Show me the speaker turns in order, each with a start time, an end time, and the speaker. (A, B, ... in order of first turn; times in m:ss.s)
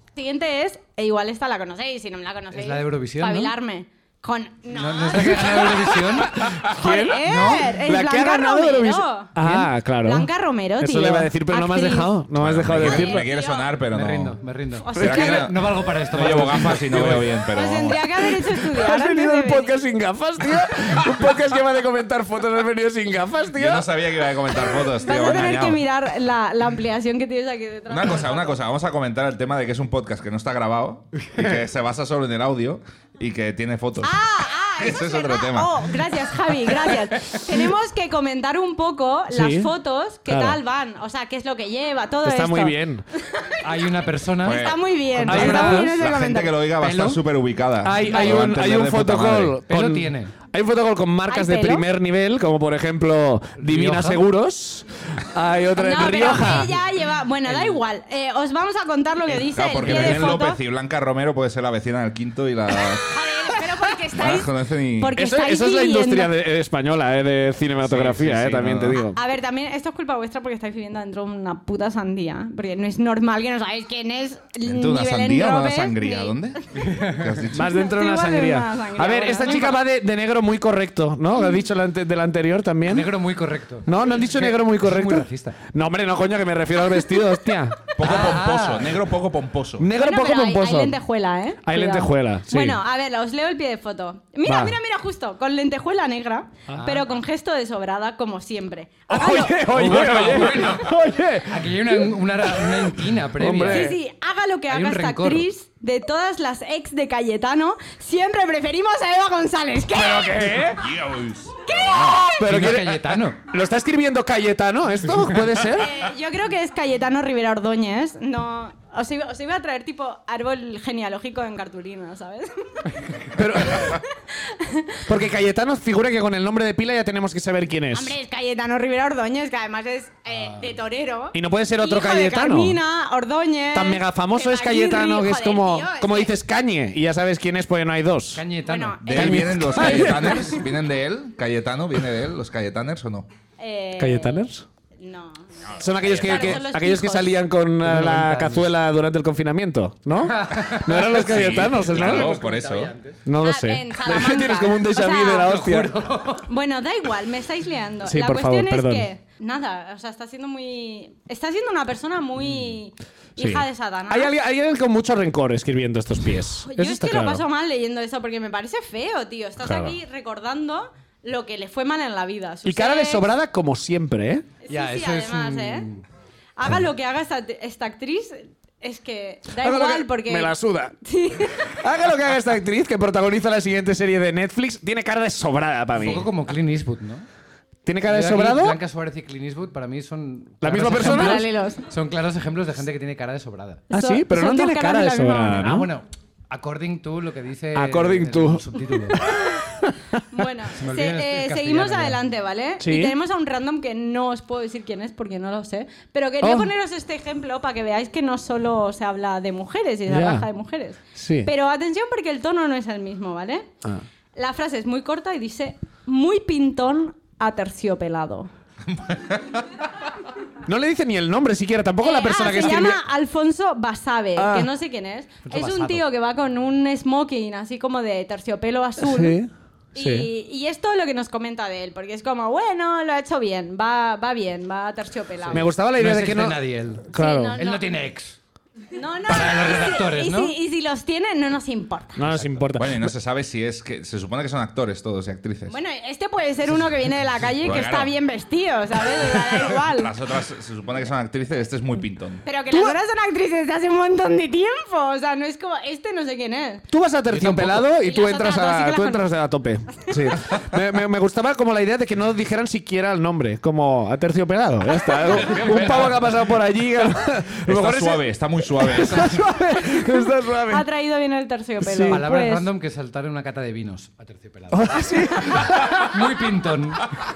0:00.2-0:05.9 A
0:02.5-0:03.5 B
0:04.7-0:06.6 B
0:06.3-0:13.3 C
0:06.7-0:09.4 A
0:07.1-0:07.7 B
0:09.4-0:09.7 B
0:10.0-0:12.1 A
0:12.3-0:14.4 D
0:12.7-0:13.8 A
0:13.8-0:17.5 B
0:14.8-0:15.5 A
0:15.0-0:18.4 D
0:17.5-0:19.8 A
0:18.2-0:23.9 C
0:23.5-0:25.8 D
0:25.0-0:28.6 A
0:27.9-0:34.1 D
0:34.0-0:43.7 A
0:34.8-0:36.1 D
0:39.3-0:39.7 C
0:40.3-0:40.6 C
0:42.2-0:43.0 C
0:43.6-0:45.9 B
0:44.4-0:49.6 D
0:44.4-0:46.6 A
0:45.3-0:45.9 C
0:46.8-0:47.2 C
0:46.8-0:47.1 B
0:47.8-0:56.7 C
0:49.7-0:50.3 B
0:51.3-0:51.8 A
0:53.6-0:54.2 B
0:55.8-1:00.6 A
0:57.5-0:57.8 B
0:59.4-1:05.2 D
0:59.8-1:00.3 B
1:03.0-1:06.4 A
1:05.1-1:09.2 C
1:07.8-1:09.0 D
1:09.0-1:16.4 A
1:14.7-1:17.8 D
1:16.8-1:17.3 B
1:17.5-1:23.1 C
1:17.7-1:19.8 A
1:21.4-1:21.6 A
1:22.9-1:25.6 B
1:23.8-1:27.9 C
1:28.0-1:29.9 D
1:28.0-1:29.0 B
1:29.8-1:31.0 C
1:29.9-1:40.4 A
1:31.6-1:32.8 C
1:34.5-1:34.8 C
1:36.8-1:37.0 B
1:39.1-1:42.0 C
1:39.7-1:40.9 B
1:41.4-1:43.9 B
1:42.6-1:44.0 C
1:43.7-1:50.6 A
1:44.7-1:45.5 B
1:49.9-1:50.9 C
1:50.6-1:52.3 D
1:51.6-1:52.4 A
1:52.4-1:53.4 B
1:52.4-1:55.9 C
1:55.7-2:05.0 A
2:03.3-2:04.0 C
2:05.1-2:08.2 C
2:07.9-2:16.4 A
2:11.3-2:12.8 C
2:13.7-2:18.4 C
2:18.4-2:19.0 B
2:18.7-2:20.3 A
2:19.1-2:20.6 C
2:19.1-2:23.3 D
2:23.6-2:24.5 A
2:24.0-2:24.6 C
2:25.0-2:27.4 A
2:25.6-2:26.6 D
2:25.8-2:32.4 C
2:27.8-2:28.7 B
2:30.3-2:33.2 B
2:31.1-2:32.9 D
2:33.2-2:36.0 C
2:33.4-2:35.6 A
2:35.2-2:36.5 B
2:36.4-2:44.3 A
2:38.0-2:39.1 C
2:43.4-2:47.4 C
2:46.6-2:53.3 A
2:49.6-2:50.0 C
2:52.6-2:54.5 C
2:54.6-2:55.9 A
2:54.7-2:56.0 B
2:56.6-3:01.8 A
2:59.5-3:01.0 C
3:01.6-3:06.3 C
3:06.0-3:07.2 B
3:07.8-3:08.8 C
3:08.1-3:13.8 B
3:10.6-3:11.4 C
3:11.0-3:11.8 A
3:13.9-3:15.8 A
3:13.9-3:15.9 C
3:15.5-3:19.2 B
3:17.7-3:20.2 C
3:20.3-3:33.7 A
3:20.8-3:22.2 B
3:22.8-3:23.2 C
3:26.4-3:26.7 C
3:30.1-3:30.5 C
3:31.2-3:31.5 C
3:34.4-3:38.5 A
3:38.9-3:39.7 D
3:40.6-3:43.0 C
3:42.0-3:49.4 A
3:44.4-3:44.7 C
3:45.5-3:46.0 B
3:49.0-3:50.3 C
3:50.0-3:55.7 A
3:55.5-3:58.4 B
3:55.5-3:57.6 C
3:57.1-3:57.8 A
3:58.9-4:02.3 A
3:59.3-4:00.6 B
4:02.2-4:03.1 C
4:02.3-4:02.6 B
4:02.8-4:05.8 D
4:05.7-4:10.2 A
4:07.6-4:08.1 D
4:09.8-4:12.4 D
4:12.4-4:16.9 A
4:12.7-4:13.0 C
4:16.9-4:30.8 C
4:17.3-4:17.8 B
4:18.0-4:19.3 A
4:25.2-4:26.4 D
4:27.7-4:29.5 D
4:30.7-4:32.7 A
4:31.8-4:32.3 C
4:32.1-4:35.0 B
4:34.7-4:36.0 C
4:35.6-4:37.0 B